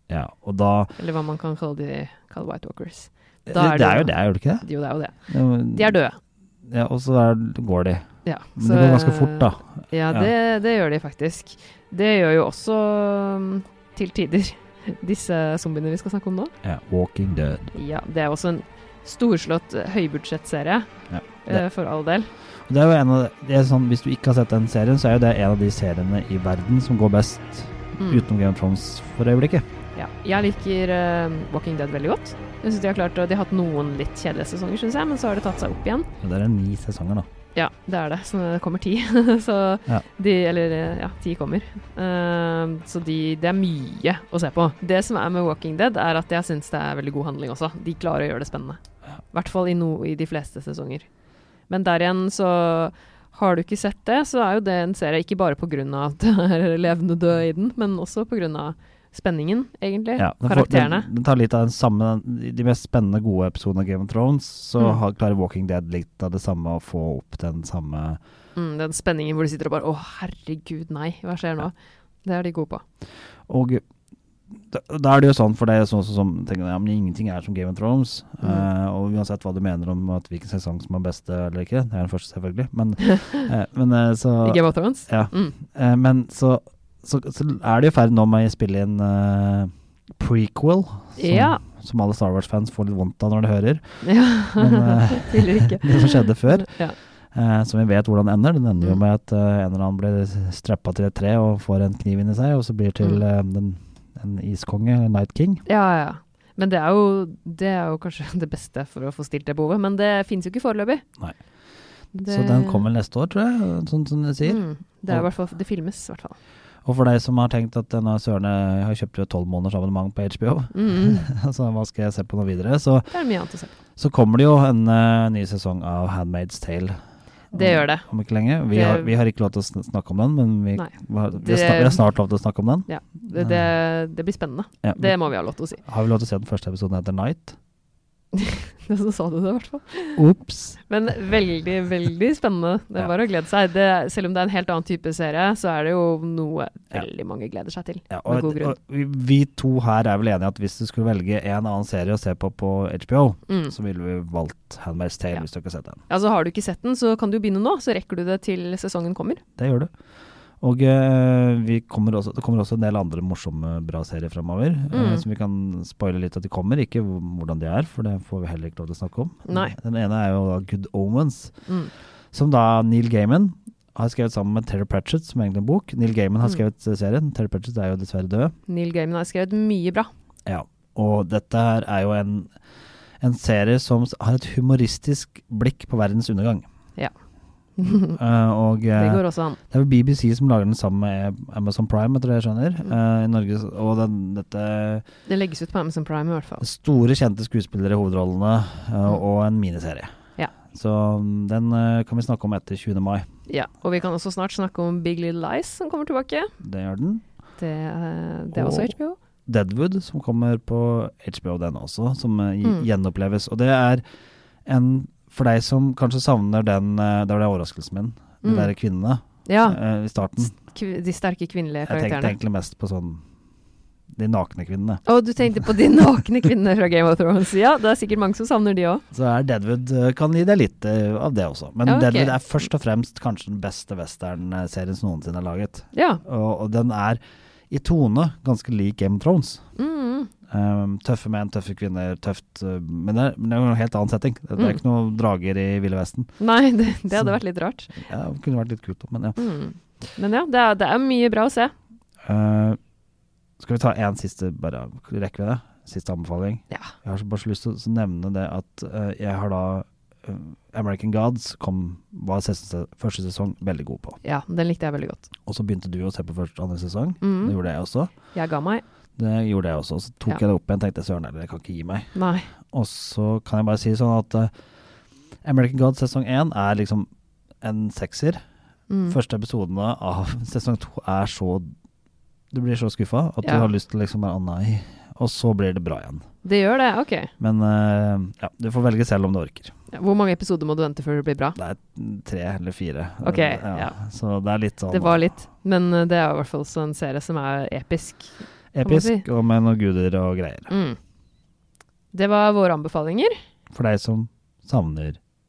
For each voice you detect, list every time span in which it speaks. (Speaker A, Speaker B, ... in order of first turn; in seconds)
Speaker A: 0.1-0.9, 3.5-4.7, 5.3-6.0, 6.7-10.3, 16.6-17.7, 21.1-21.6, 22.7-29.7, 36.2-37.3, 60.2-68.2, 73.5-73.8, 74.7-93.8, 94.6-96.8, 97.3-105.6, 112.2-115.3, 116.8-123.1, 124.0-127.0, 127.5-133.6, 134.8-137.6, 140.2-140.8, 148.1-156.0, 159.6-159.9, 160.6-171.5, 172.3-178.5, 180.5-182.5, 183.2-186.7, 188.0-195.1, 196.6-200.1, 200.7-203.3, 206.6-207.2, 208.5-214.0, 214.7-220.6, 221.9-223.2, 224.2-225.0, 229.1-239.6, 240.5-246.3, 247.9-249.5, 252.3-252.8, 253.6-264.2, 265.5-268.1, 269.2-272.1, 272.6-274.5, 275.4-277.1, 277.6-278.4, 279.1-281.7, 282.5-286.3, 287.4-289.7, 291.6-295.4, 298.7-300.7, 303.7-305.2
Speaker B: 1.0-6.2, 8.2-16.5, 17.7-20.9, 21.4-22.3, 28.0-28.3, 29.9-36.1, 37.5-48.8, 49.3-51.1, 51.7-61.1, 68.6-71.7, 72.2-72.8, 78.4-78.7, 84.4-85.6, 91.2-91.6, 94.0-97.0, 105.7-111.0, 112.1-112.9, 114.4-116.4, 120.7-121.3, 123.1-123.8, 127.5-128.1, 128.7-129.2, 130.8-132.1, 132.9-135.8, 138.3-140.3, 140.8-148.8, 153.5-153.7, 156.1-159.4, 164.9-165.2, 169.5-169.8, 171.7-171.9, 178.7-180.1, 187.8-188.2, 188.9-189.6, 195.3-196.6, 203.5-206.5, 207.6-209.2, 218.4-218.8, 219.5-219.8, 220.5-222.4, 225.1-229.0, 231.8-232.5, 235.9-236.2, 239.8-240.3, 246.4-248.0, 249.4-251.7, 264.2-265.3, 267.2-267.6, 268.3-268.8, 272.1-272.5, 278.9-279.2, 283.4-283.7, 286.4-287.3, 289.9-291.6, 293.2-294.0, 294.9-299.3, 300.7-301.0, 302.1-303.3